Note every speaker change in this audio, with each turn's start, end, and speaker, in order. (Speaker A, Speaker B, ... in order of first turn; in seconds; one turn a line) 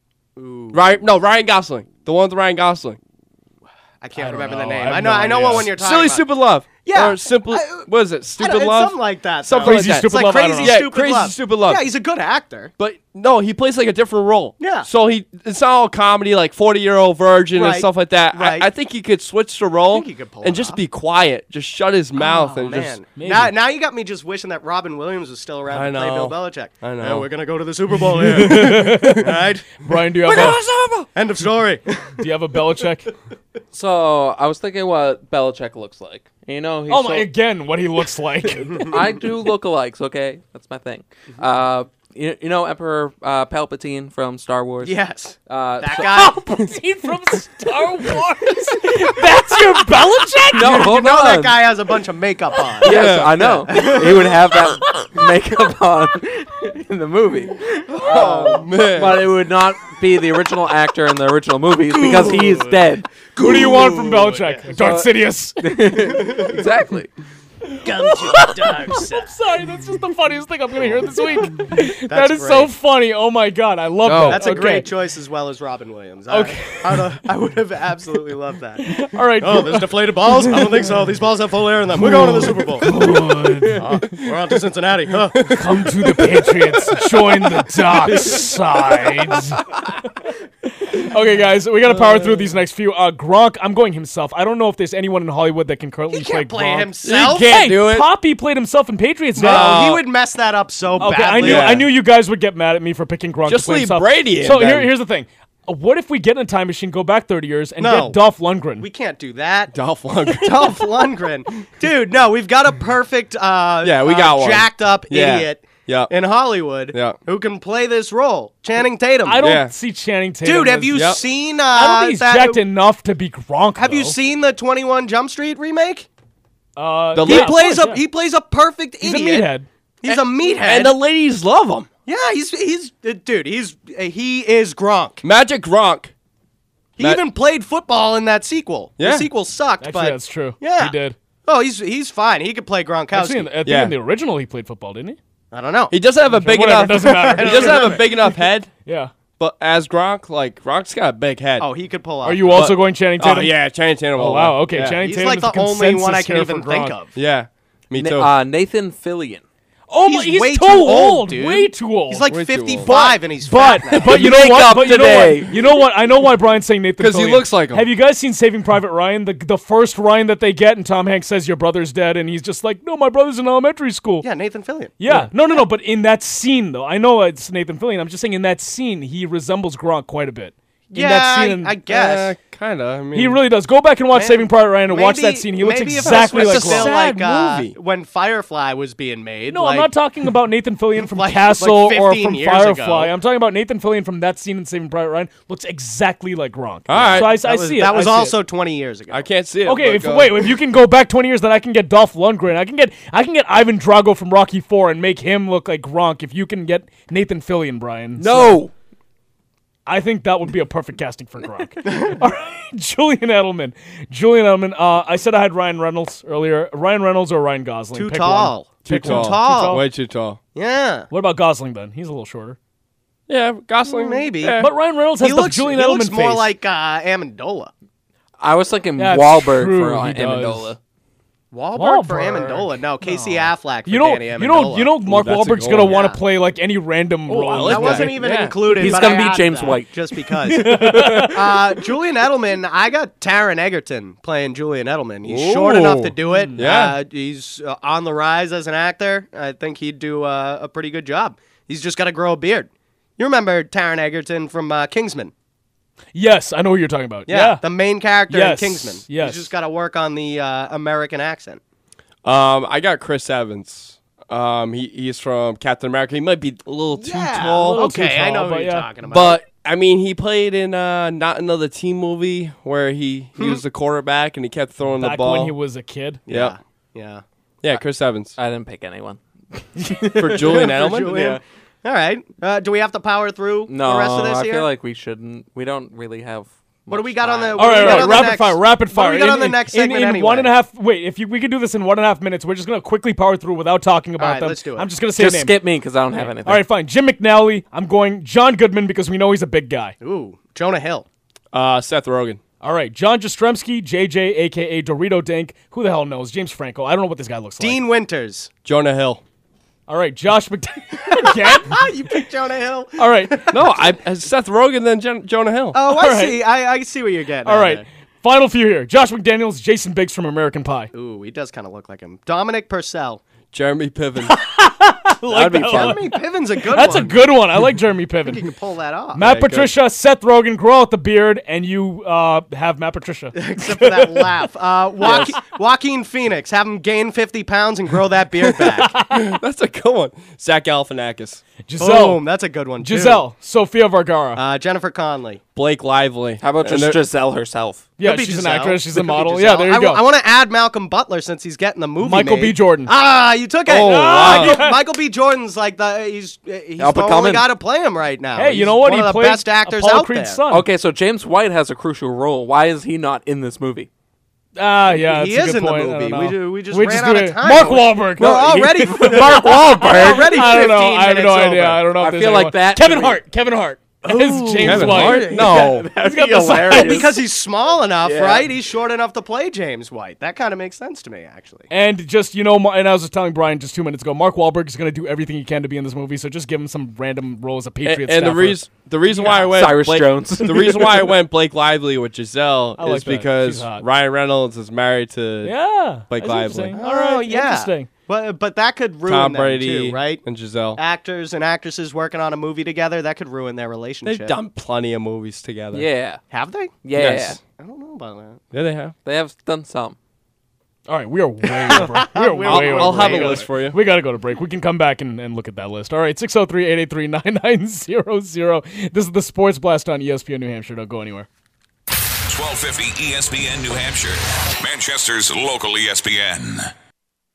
Speaker A: 0.4-0.9
Speaker B: 0.7-3.0
Speaker A: 4.0-6.2
Speaker C: 4.2-5.7
Speaker B: 5.3-11.8
Speaker A: 6.8-7.9
Speaker A: 8.4-12.7
Speaker C: 9.6-10.8
Speaker B: 12.8-23.0
Speaker A: 14.6-14.9
Speaker A: 17.6-18.7
Speaker A: 19.9-20.8
Speaker A: 22.2-32.0
Speaker C: 23.2-23.6
Speaker B: 25.7-27.3
Speaker C: 28.1-30.6
Speaker B: 28.4-29.5
Speaker B: 30.3-31.1
Speaker C: 32.2-33.1
Speaker D: 33.7-37.3
Speaker C: 36.9-39.0
Speaker D: 38.9-46.1
Speaker A: 44.8-46.4
Speaker C: 46.0-50.9
Speaker D: 50.5-51.6
Speaker A: 50.6-53.0
Speaker D: 52.8-63.0
Speaker B: 52.8-53.9
Speaker A: 53.7-54.4
Speaker B: 58.0-59.3
Speaker C: 63.4-66.0
Speaker D: 64.8-67.1
Speaker C: 67.7-74.9
Speaker A: 67.8-69.3
Speaker A: 72.1-72.7
Speaker D: 74.1-74.4
Speaker A: 74.3-82.9
Speaker C: 76.3-77.1
Speaker C: 78.8-80.9
Speaker C: 82.0-83.9
Speaker A: 83.8-85.6
Speaker C: 85.5-89.7
Speaker C: 90.8-99.8
Speaker B: 91.9-92.5
Speaker A: 96.1-97.7
Speaker B: 97.4-98.1
Speaker A: 99.4-101.7
Speaker B: 99.4-100.0
Speaker C: 101.0-108.9
Speaker B: 101.4-101.9
Speaker B: 103.5-104.9
Speaker A: 107.8-108.2
Speaker A: 108.8-109.8
Speaker B: 109.7-110.8
Speaker A: 110.3-119.5
Speaker B: 113.8-116.1
Speaker B: 116.9-117.2
Speaker C: 119.2-121.1
Speaker B: 119.4-119.7
Speaker A: 120.4-122.6
Speaker B: 120.9-121.2
Speaker C: 121.7-124.2
Speaker A: 123.8-126.1
Speaker C: 126.8-128.0
Speaker B: 127.2-127.6
Speaker A: 127.2-129.5
Speaker C: 129.0-129.7
Speaker A: 130.0-131.0
Speaker B: 130.1-131.9
Speaker A: 132.1-135.2
Speaker B: 135.2-136.1
Speaker A: 137.0-143.5
Speaker B: 139.0-139.3
Speaker C: 139.8-141.2
Speaker C: 143.1-145.2
Speaker B: 143.7-143.9
Speaker A: 145.5-145.9
Speaker B: 145.9-148.7
Speaker C: 146.3-148.2
Speaker A: 146.6-148.1
Speaker C: 148.9-149.1
Speaker B: 149.4-151.7
Speaker A: 151.6-152.7
Speaker C: 152.2-153.5
Speaker B: 152.5-155.0
Speaker C: 154.2-156.9
Speaker A: 155.0-157.1
Speaker B: 157.2-158.3
Speaker D: 157.9-159.4
Speaker C: 159.9-162.3
Speaker A: 160.1-164.2
Speaker B: 162.3-162.9
Speaker C: 162.8-174.3
Speaker D: 164.0-165.5
Speaker B: 167.0-167.9
Speaker A: 174.2-175.0
Speaker C: 175.0-181.8
Speaker A: 180.9-182.3
Speaker B: 181.9-183.4
Speaker C: 183.1-186.9
Speaker A: 184.1-189.9
Speaker B: 186.0-187.7
Speaker C: 189.5-198.4
Speaker A: 191.0-193.1
Speaker B: 196.9-197.3
Speaker A: 196.9-199.3
Speaker B: 199.1-200.5
Speaker C: 199.7-208.6
Speaker D: 208.2-208.7
Speaker C: 209.9-219.8
Speaker A: 217.9-219.8
Speaker B: 218.8-220.4
Speaker A: 220.6-221.1
Speaker C: 221.1-222.6
Speaker B: 223.3-224.7
Speaker A: 223.9-224.6
Speaker C: 224.6-226.5
Speaker A: 225.2-227.7
Speaker D: 228.4-230.8
Speaker C: 229.0-230.7
Speaker A: 231.5-234.9
Speaker C: 231.8-238.2
Speaker B: 235.1-235.9
Speaker A: 235.8-236.2
Speaker B: 237.3-239.0
Speaker A: 237.7-255.3
Speaker D: 238.7-239.9
Speaker C: 240.5-241.6
Speaker B: 240.8-241.2
Speaker B: 245.2-247.0
Speaker C: 246.3-246.7
Speaker C: 256.1-257.6
Speaker A: 257.3-261.6
Speaker C: 258.3-259.5
Speaker B: 262.2-267.8
Speaker A: 267.0-269.4
Speaker C: 267.6-268.9
Speaker B: 269.1-275.5
Speaker C: 274.9-276.2
Speaker B: 276.3-276.6
Speaker A: 276.3-277.2
Speaker B: 277.6-278.4
Speaker D: 278.4-279.2
Speaker D: 279.8-280.3
Speaker B: 280.2-281.3
Speaker A: 280.4-284.7
Speaker D: 283.7-288.3
Speaker A: 286.9-290.5
Speaker C: 287.6-295.6
Speaker A: 294.2-294.9
Speaker D: 295.2-296.6
Speaker C: 296.1-300.0
Speaker A: 300.0-301.1
Speaker B: 301.5-302.4
Speaker C: 302.6-307.8
Speaker A: 307.6-308.5
Speaker B: 308.6-309.2
Speaker C: 309.9-312.2
Speaker A: 311.1-313.7
Speaker C: 313.0-313.5
Speaker B: 313.5-315.8
Speaker A: 315.7-317.8
Speaker C: 315.9-316.4
Speaker C: 317.4-320.9
Speaker A: 320.9-323.2
Speaker B: 323.5-324.4
Speaker C: 324.2-326.2
Speaker D: 325.3-326.0
Speaker A: 325.6-327.2
Speaker C: 326.7-328.4
Speaker A: 328.3-329.2
Speaker C: 329.1-334.3
Speaker B: 329.2-329.7
Speaker A: 333.4-338.9
Speaker C: 335.0-335.3
Speaker B: 335.0-335.3
Speaker C: 338.8-339.4
Speaker B: 339.1-341.4
Speaker C: 341.7-342.2
Speaker A: 341.8-343.2
Speaker C: 342.8-344.4
Speaker A: 344.4-345.4
Speaker B: 345.6-347.0
Speaker D: 346.4-347.9
Speaker C: 348.0-350.0
Speaker A: 348.0-360.4
Speaker C: 352.0-352.9
Speaker B: 353.7-354.6
Speaker C: 353.8-354.8
Speaker B: 356.8-357.4
Speaker D: 357.0-357.4
Speaker C: 358.4-360.7
Speaker D: 360.5-363.9
Speaker C: 364.6-377.1
Speaker A: 364.9-371.9
Speaker D: 368.2-370.0
Speaker D: 372.0-373.2
Speaker D: 374.1-377.2
Speaker A: 374.6-375.1
Speaker B: 374.6-375.9
Speaker A: 376.8-381.7
Speaker D: 378.0-378.5
Speaker C: 381.7-388.6
Speaker B: 387.9-395.5
Speaker C: 389.2-389.4
Speaker D: 389.5-390.8
Speaker C: 392.8-393.9
Speaker C: 395.4-397.9
Speaker B: 396.1-396.8
Speaker A: 396.8-400.2
Speaker B: 399.1-400.8
Speaker A: 400.8-404.4
Speaker B: 404.1-405.9
Speaker D: 405.7-406.2
Speaker A: 406.3-406.8
Speaker D: 406.8-407.4
Speaker B: 406.9-407.4
Speaker A: 407.6-408.4
Speaker B: 408.5-408.9
Speaker D: 409.0-410.0
Speaker C: 410.9-421.3
Speaker A: 411.6-413.5
Speaker B: 412.4-413.8
Speaker E: 422.3-426.7